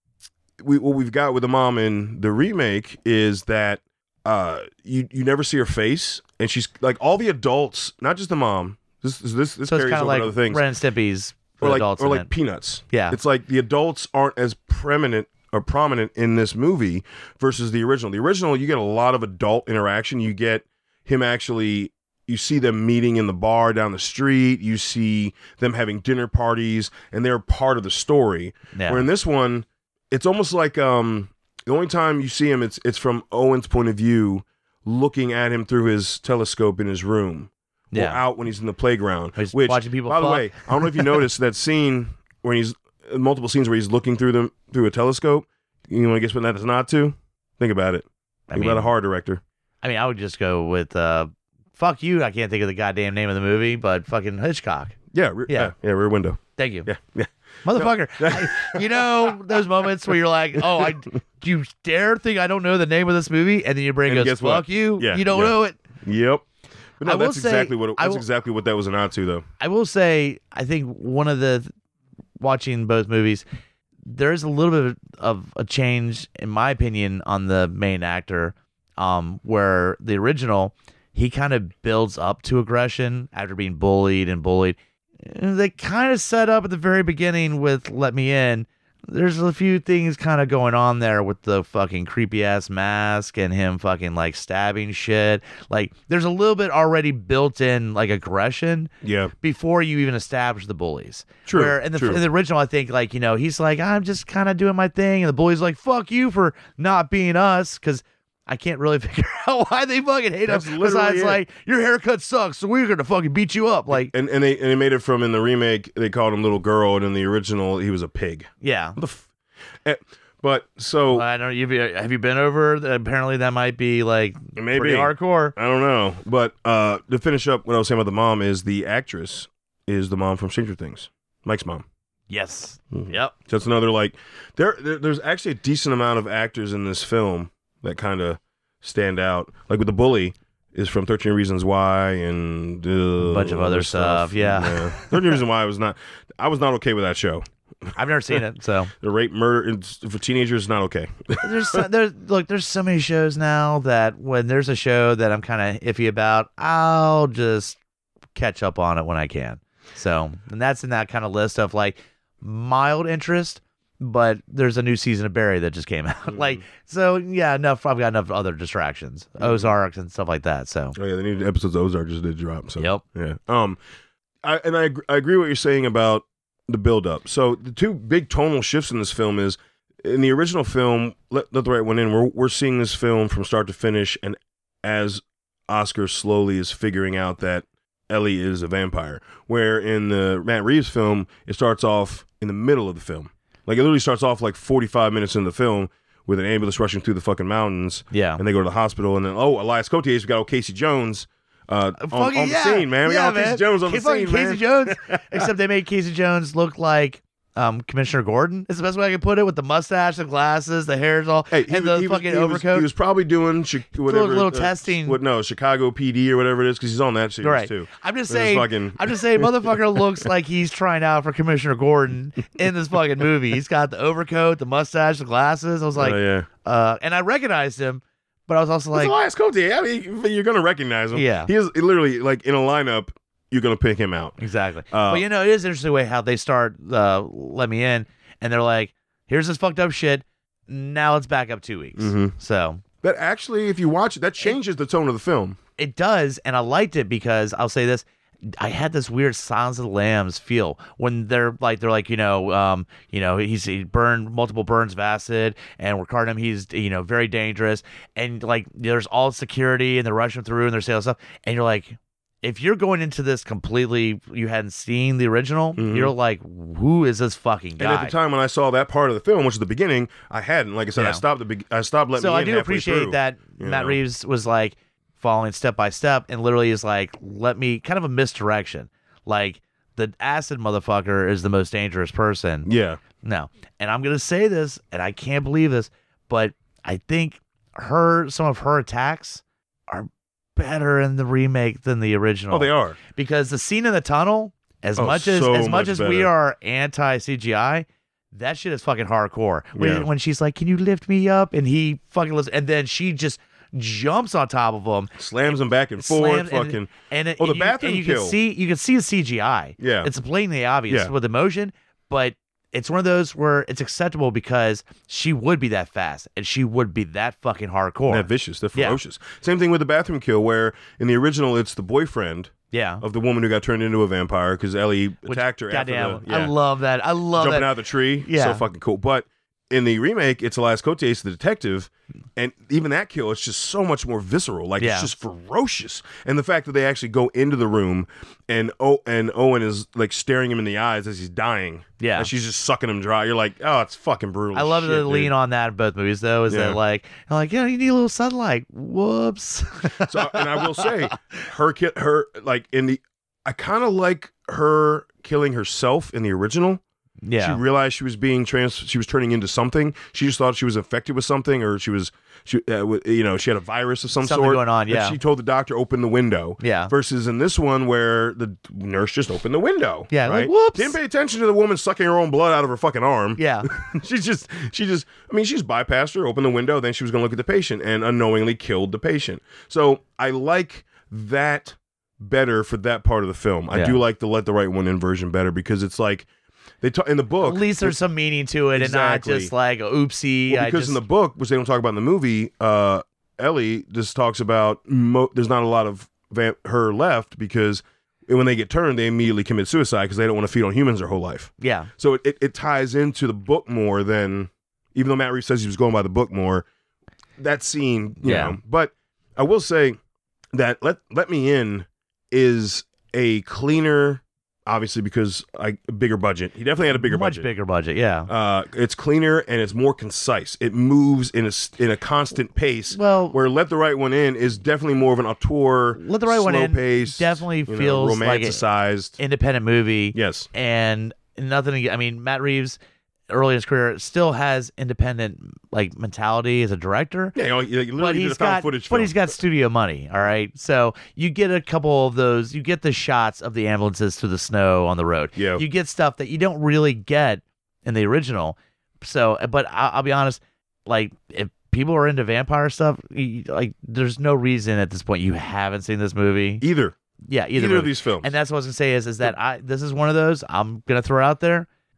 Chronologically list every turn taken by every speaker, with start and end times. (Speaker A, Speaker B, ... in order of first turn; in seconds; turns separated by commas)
Speaker A: 0.6-10.7, Speaker B: 9.7-12.3, Speaker A: 11.6-49.4, Speaker B: 12.9-13.2, Speaker B: 28.7-29.1, Speaker B: 37.9-38.2, Speaker B: 39.4-41.2, Speaker B: 48.5-48.9, Speaker B: 49.8-55.7, Speaker A: 55.1-60.9, Speaker B: 56.6-56.9, Speaker B: 57.6-65.8, Speaker A: 64.1-66.5, Speaker A: 67.0-69.5, Speaker B: 67.0-68.2, Speaker B: 69.6-71.7, Speaker B: 72.4-73.4, Speaker B: 74.0-114.1, Speaker A: 99.0-99.3, Speaker A: 101.5-102.2, Speaker A: 110.5-111.4, Speaker A: 113.9-119.3, Speaker B: 118.6-119.0, Speaker A: 119.8-121.2, Speaker B: 121.1-125.5, Speaker A: 124.6-131.9, Speaker B: 132.3-133.3, Speaker A: 132.9-148.4, Speaker B: 143.2-145.3, Speaker B: 148.0-148.9, Speaker A: 149.0-151.8, Speaker B: 151.4-157.8, Speaker B: 158.3-171.0, Speaker A: 166.3-166.6, Speaker A: 169.4-169.7, Speaker A: 171.0-173.8, Speaker B: 172.8-173.0, Speaker A: 174.4-205.5, Speaker B: 198.1-198.4, Speaker B: 202.0-212.9, Speaker A: 211.5-220.0, Speaker B: 214.0-215.2, Speaker B: 217.4-229.1, Speaker A: 225.9-226.5, Speaker A: 228.9-234.4, Speaker B: 231.1-231.5, Speaker B: 234.4-242.8, Speaker A: 234.9-235.2, Speaker A: 242.0-242.3, Speaker A: 243.0-245.6, Speaker B: 245.8-248.0, Speaker B: 248.6-268.2, Speaker A: 265.8-266.1, Speaker A: 267.8-274.0, Speaker B: 271.0-271.2, Speaker B: 272.2-282.7, Speaker A: 282.6-283.0, Speaker B: 283.2-319.0, Speaker A: 292.5-293.0, Speaker A: 295.0-296.3, Speaker A: 299.8-300.1, Speaker A: 305.2-308.4, Speaker A: 309.8-310.1, Speaker A: 310.9-311.1, Speaker A: 318.1-326.5, Speaker B: 322.7-323.0, Speaker B: 325.3-328.6, Speaker A: 327.4-345.3, Speaker B: 334.8-335.1, Speaker B: 342.0-342.3, Speaker B: 344.5-351.1, Speaker A: 346.5-346.8, Speaker A: 350.0-356.8, Speaker B: 357.2-357.6, Speaker A: 357.4-386.3, Speaker B: 364.2-365.2, Speaker B: 366.6-366.9, Speaker B: 370.1-371.0, Speaker B: 373.4-373.7, Speaker B: 383.7-384.0, Speaker A: 386.8-388.0, Speaker B: 387.4-391.0, Speaker A: 388.7-389.5, Speaker A: 390.5-406.7, Speaker B: 401.6-401.9, Speaker A: 407.4-410.0, Speaker B: 408.2-408.6, Speaker A: 410.5-417.5, Speaker B: 416.9-418.3, Speaker A: 418.3-429.2, Speaker B: 422.9-423.4, Speaker B: 426.0-428.6, Speaker B: 429.2-432.8, Speaker A: 430.1-430.5, Speaker B: 433.3-437.4, Speaker A: 437.4-439.2, Speaker B: 438.0-456.6, Speaker A: 445.4-445.6, Speaker A: 456.6-456.9, Speaker B: 457.3-461.7, Speaker A: 457.5-458.4